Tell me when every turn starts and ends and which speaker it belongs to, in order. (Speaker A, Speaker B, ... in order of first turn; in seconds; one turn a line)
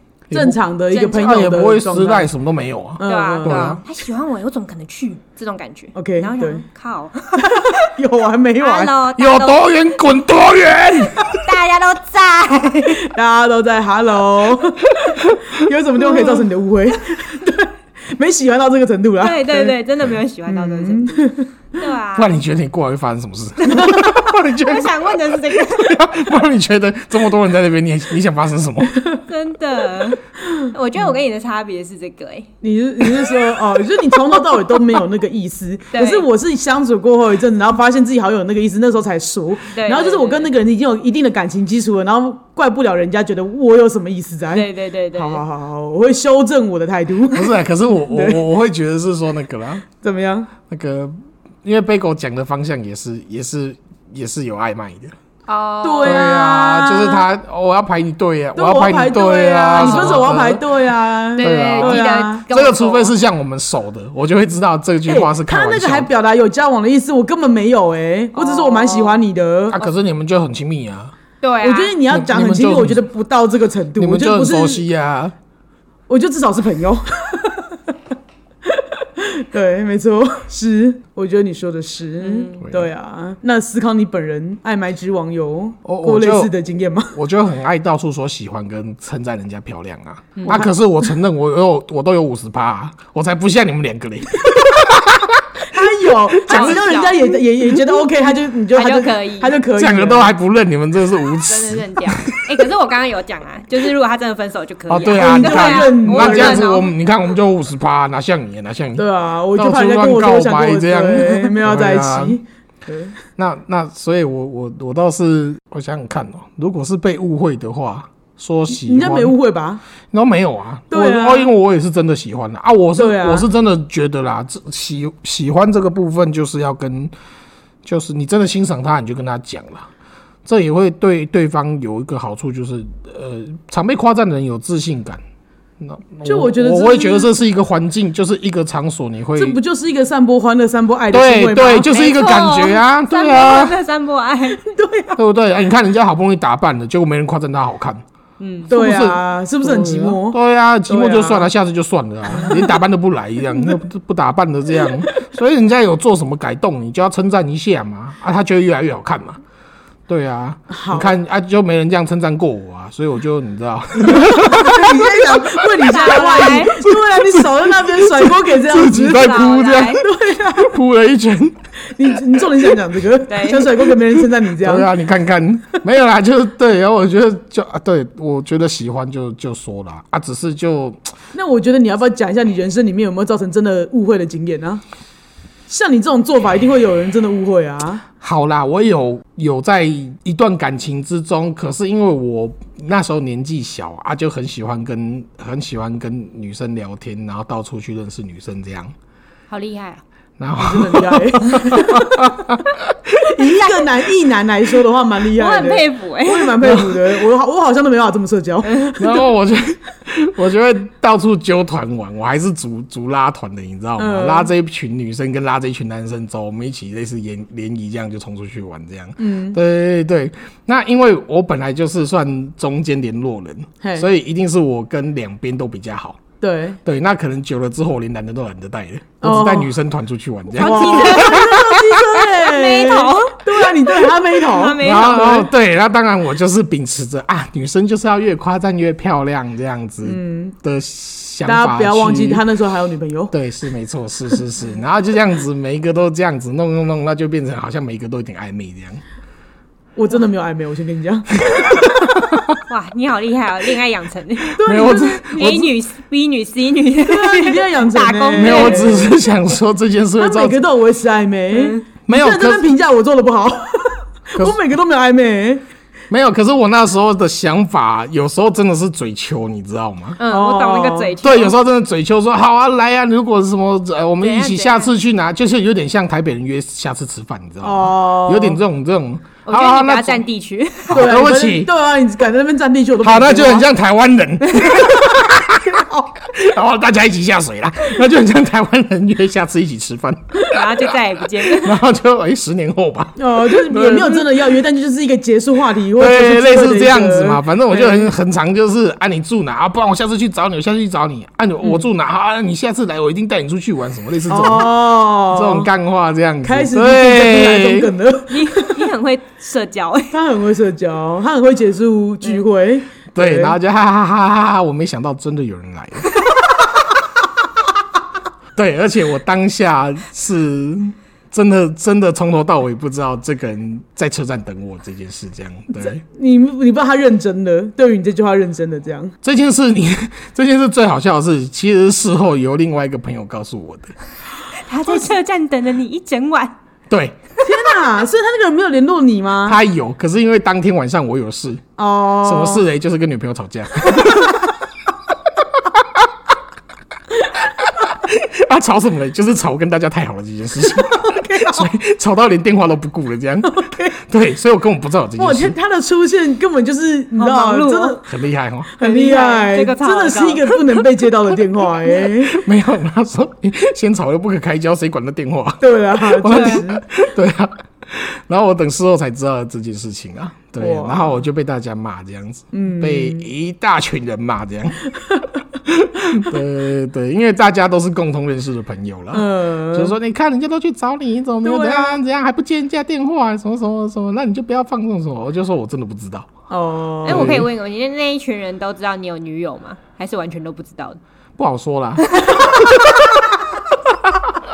Speaker A: 0.3-3.8
Speaker B: 0.3-2.3
Speaker C: 0.9-1.3
Speaker B: 3.0-3.8
Speaker C: 3.0-7.8
Speaker B: 5.9-6.6
Speaker B: 7.4-8.9
Speaker C: 8.6-9.7
Speaker A: 9.2-11.4
Speaker C: 11.1-13.1
Speaker B: 13.0-19.8
Speaker A: 15.0-15.5
Speaker C: 19.2-22.4
Speaker B: 20.5-21.5
Speaker A: 22.1-29.0
Speaker C: 23.6-26.1
Speaker C: 29.3-32.5
Speaker B: 32.6-47.6
Speaker C: 35.9-36.3
Speaker C: 39.7-40.5
Speaker C: 44.5-45.4
Speaker A: 47.3-49.8
Speaker B: 48.1-48.4
Speaker B: 50.0-50.5
Speaker A: 50.7-55.1
Speaker C: 55.5-56.4
Speaker B: 55.8-57.2
Speaker A: 56.0-60.6
Speaker B: 58.5-62.4
Speaker C: 59.7-60.3
Speaker C: 61.4-63.1
Speaker A: 61.4-66.1
Speaker B: 65.0-69.8
Speaker C: 68.3-69.2
Speaker A: 69.7-71.1
Speaker C: 71.4-72.0
Speaker B: 71.6-74.8
Speaker A: 72.1-73.0
Speaker A: 74.0-75.3
Speaker B: 76.1-77.8
Speaker B: 78.7-87.1
Speaker C: 82.2-82.6
Speaker A: 82.6-82.9
Speaker A: 85.8-86.5
Speaker A: 87.1-95.6
Speaker C: 90.3-90.7
Speaker B: 90.5-90.7
Speaker B: 95.7-100.3
Speaker C: 96.5-97.4
Speaker A: 96.5-96.8
Speaker C: 98.7-99.6
Speaker A: 99.7-102.7
Speaker C: 101.4-106.9
Speaker A: 104.9-112.4
Speaker B: 105.2-106.7
Speaker B: 109.0-113.1
Speaker A: 113.4-119.3
Speaker B: 118.7-119.8
Speaker A: 120.1-127.1
Speaker B: 120.9-121.5
Speaker B: 122.9-123.5
Speaker A: 127.8-129.9
Speaker A: 130.4-135.2
Speaker A: 135.8-139.6
Speaker B: 136.2-137.3
Speaker B: 139.3-141.9
Speaker A: 141.1-143.7
Speaker C: 141.9-144.6
Speaker B: 144.6-145.2
Speaker A: 145.2-148.0
Speaker C: 148.4-148.7
Speaker A: 148.6-159.4
Speaker B: 148.7-151.5
Speaker B: 152.3-152.8
Speaker A: 160.1-165.4
Speaker B: 160.7-161.1
Speaker B: 164.0-170.7
Speaker C: 165.8-166.8
Speaker A: 166.8-170.0
Speaker C: 169.0-170.0
Speaker A: 170.6-171.6
Speaker B: 171.8-174.9
Speaker A: 172.1-172.7
Speaker C: 173.3-173.9
Speaker A: 174.6-181.0
Speaker B: 181.3-184.8
Speaker B: 185.7-188.0
Speaker A: 188.2-198.9
Speaker C: 199.5-200.0
Speaker A: 200.4-203.4
Speaker B: 200.6-202.4
Speaker B: 203.2-209.2
Speaker C: 205.3-206.6
Speaker A: 206.6-207.1
Speaker A: 208.9-226.2
Speaker B: 214.0-214.5
Speaker B: 219.2-219.6
Speaker B: 223.8-224.1
Speaker B: 226.4-226.8
Speaker A: 226.8-231.7
Speaker B: 229.2-229.7
Speaker B: 230.6-234.8
Speaker C: 230.6-231.6
Speaker C: 232.3-235.5
Speaker A: 234.8-242.4
Speaker B: 240.0-240.6
Speaker B: 241.4-243.3
Speaker A: 243.3-249.0
Speaker B: 249.9-252.2
Speaker A: 251.5-252.6
Speaker C: 252.7-258.9
Speaker B: 254.5-255.6
Speaker A: 254.6-255.7
Speaker B: 257.0-259.1
Speaker A: 258.4-260.6
Speaker B: 260.2-265.6
Speaker C: 261.5-261.8
Speaker A: 262.1-262.6
Speaker A: 266.1-270.2
Speaker C: 270.2-271.5
Speaker B: 270.3-271.1
Speaker A: 271.2-280.2
Speaker C: 274.2-274.9
Speaker B: 277.6-278.6
Speaker C: 279.4-281.1
Speaker A: 280.9-281.7
Speaker B: 280.9-283.7
Speaker A: 283.0-290.9
Speaker B: 284.6-286.1
Speaker C: 290.5-291.8
Speaker A: 291.5-294.4
Speaker B: 293.1-298.1
Speaker A: 295.9-307.9
Speaker B: 304.3-305.7
Speaker B: 306.4-308.8
Speaker C: 308.3-310.1
Speaker B: 310.1-313.6
Speaker A: 313.1-316.1
Speaker A: 318.5-326.0
Speaker B: 325.8-329.1
Speaker A: 329.2-333.9
Speaker C: 334.5-336.6
Speaker A: 336.9-337.2
Speaker B: 337.4-339.6
Speaker A: 339.4-341.6
Speaker B: 341.8-342.6
Speaker A: 342.2-344.5
Speaker A: 347.6-355.5
Speaker B: 350.8-351.7
Speaker B: 353.4-353.9
Speaker B: 355.2-358.0
Speaker C: 357.2-358.0
Speaker A: 358.1-358.7
Speaker B: 358.8-362.4
Speaker C: 358.8-360.6
Speaker A: 362.1-374.8
Speaker B: 365.6-366.8
Speaker C: 366.3-366.6
Speaker B: 370.6-371.2
Speaker B: 372.5-373.3
Speaker A: 375.6-386.3
Speaker B: 379.1-379.9
Speaker B: 381.4-382.0
Speaker B: 386.5-387.4
Speaker C: 387.0-391.0
Speaker A: 387.1-387.5
Speaker A: 391.4-392.5
Speaker C: 392.1-392.4